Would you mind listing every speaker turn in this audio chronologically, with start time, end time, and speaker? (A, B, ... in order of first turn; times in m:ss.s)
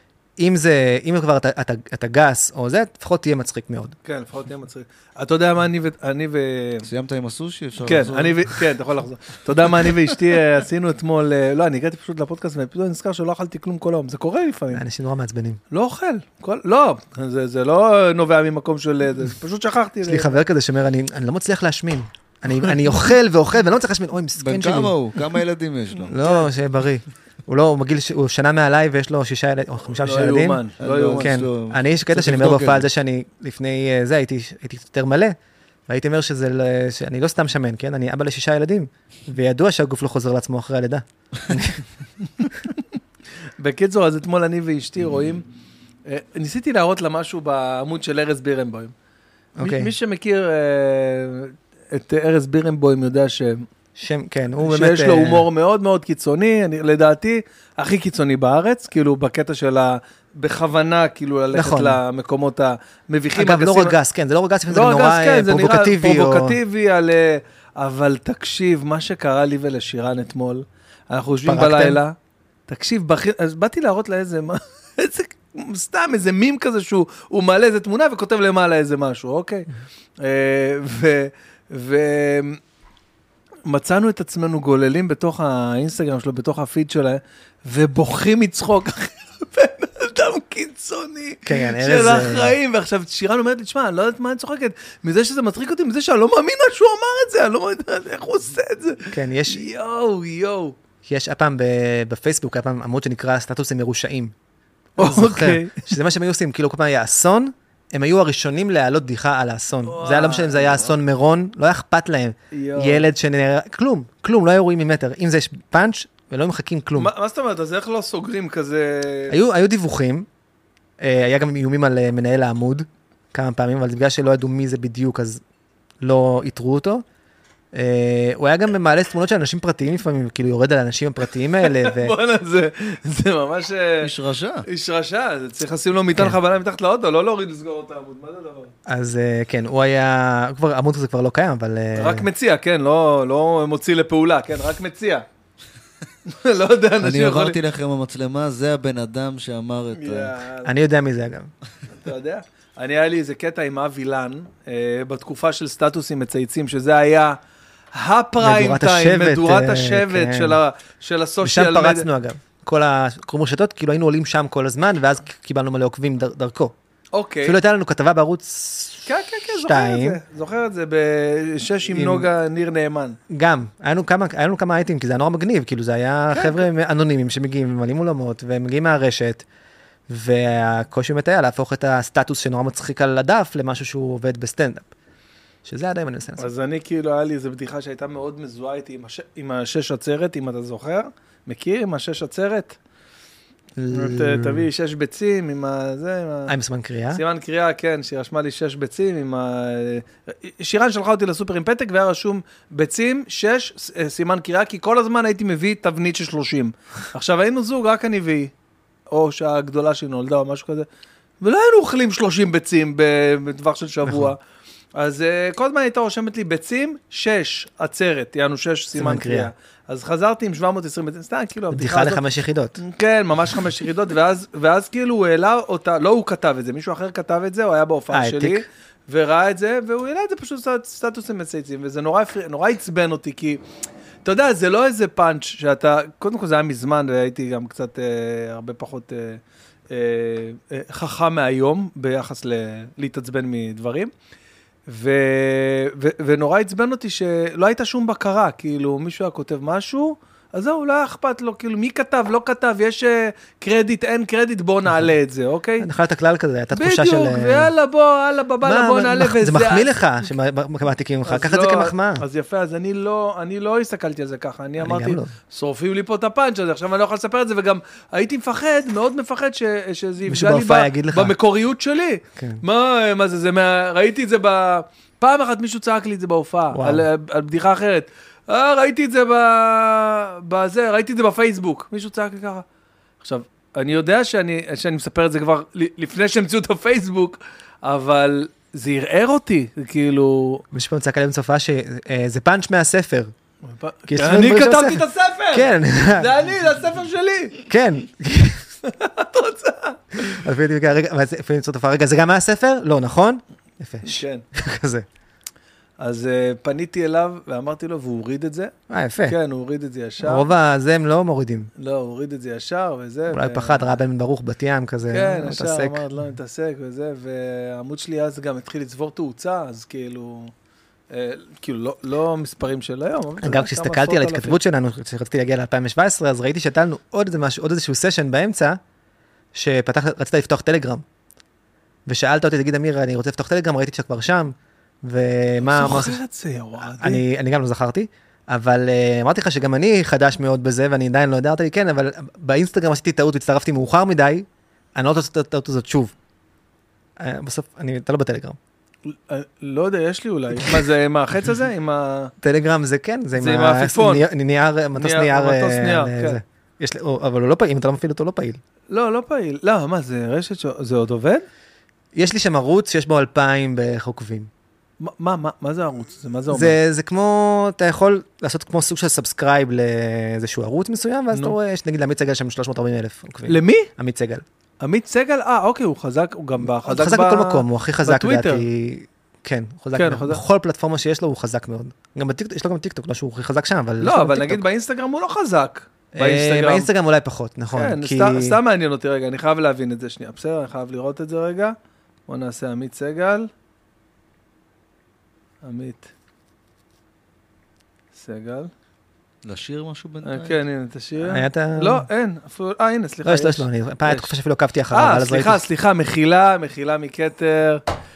0:00.4-0:03.9 A
0:04.0-0:06.9 B
0:06.9-0:08.6 C
0:07.8-0:14.8 B
0:14.7-0:15.6 A
0:15.7-0:20.4 B
0:20.0-0:24.9 A
0:24.4-0:26.1 C
0:26.1-0:30.6 A
0:26.1-0:26.5 B
0:30.0-0:31.4 B
0:30.8-0:32.8 C
0:31.2-0:35.4 A
0:35.9-0:41.8 A
0:43.6-0:45.4 B
0:46.1-0:48.9 B
0:49.6-0:49.9 A
0:49.6-0:53.6 B
0:54.0-0:55.5 A
0:54.6-1:03.9 B
1:01.5-1:02.0 A
1:03.4-1:06.6 A
1:04.7-1:12.2 B
1:11.4-1:12.0 A
1:12.7-1:19.7 B
1:20.2-1:22.6 B
1:23.7-1:40.8 B
1:31.5-1:32.6 A
1:39.1-1:39.6 A
1:41.0-1:44.3 A
1:45.0-1:45.9 B
1:45.0-1:57.1 A
1:49.9-1:50.9 B
1:52.5-1:53.1 B
1:57.0-1:59.4 B
1:59.3-2:00.3 A
2:01.0-2:05.4 A
2:06.0-2:07.0 A
2:07.7-2:12.2 A
2:11.6-2:14.1 B
2:14.0-2:14.7 C
2:14.7-2:18.7 B
2:18.9-2:22.3 A
2:22.0-2:25.2 B
2:26.3-2:27.6 B
2:27.0-2:30.3 C
2:29.9-2:30.7 B
2:30.6-2:31.5 A
2:32.0-2:37.4 B
2:37.9-2:42.1 B
2:38.4-2:40.6 A
2:41.4-2:46.7 A
2:47.1-2:47.6 B
2:47.4-2:50.2 A
2:49.1-2:53.2 B
2:51.9-2:52.3 A
2:53.3-2:59.4 A
2:56.3-2:56.6 B
3:00.1-3:04.9 A
3:05.6-3:06.5 A
3:06.4-3:12.8 B
3:13.8-3:14.7 A
3:13.9-3:16.5 B
3:16.5-3:17.2 A
3:17.1-3:28.5 B
3:29.1-3:30.9 B
3:31.4-3:34.4 B
3:34.0-3:34.3 A
3:35.0-3:42.2 B
3:39.0-3:39.5 A
3:41.7-3:42.8 A
3:42.8-3:53.6 B
3:48.1-3:48.7 A
3:54.2-4:04.1 B
4:04.9-4:15.9 B
4:15.8-4:17.7 A
4:16.7-4:19.9 B
4:18.6-4:22.2 A
4:21.2-4:42.6 B
4:24.8-4:25.3 A
4:30.3-4:31.4 A
4:32.4-4:32.6 A
4:36.7-4:37.1 A
4:43.2-4:50.6 B
4:50.7-4:53.3 A
4:53.7-4:57.6 B
4:54.1-4:56.3 A
4:57.7-4:58.7 A
4:58.8-5:00.4 B
5:00.3-5:05.0 A
5:04.0-5:04.4 B
5:06.0-5:08.7 B
5:08.9-5:09.4 A
5:09.3-5:10.5 B
5:10.2-5:11.7 A
5:11.8-5:13.9 B
5:13.3-5:16.0 A
5:15.1-5:20.5 B
5:21.1-5:24.6 B
5:23.4-5:28.8 A
5:29.5-5:31.0 A
5:32.1-5:36.2 A
5:35.7-5:37.2 B
5:36.8-5:46.1 A
5:47.2-5:48.6 A
5:49.1-5:52.3 B
5:52.4-5:58.6 A
5:53.3-5:54.3 B
5:55.0-5:56.4 B
5:58.9-6:01.4 B
6:02.1-6:04.5 A
6:05.0-6:06.8 B
6:06.5-6:14.4 A
6:13.5-6:13.9 B
6:14.8-6:18.6 B
6:16.8-6:24.6 A
6:19.9-6:20.4 B
6:24.0-6:26.9 B
6:26.2-6:28.6 A
6:27.7-6:31.8 B
6:32.3-6:33.5 B
6:35.6-6:36.1 B
6:38.1-6:38.7 B
6:39.4-6:40.6 C
6:40.2-6:44.3 B
6:41.2-6:42.0 A
6:43.2-6:45.6 A
6:44.9-6:47.8 B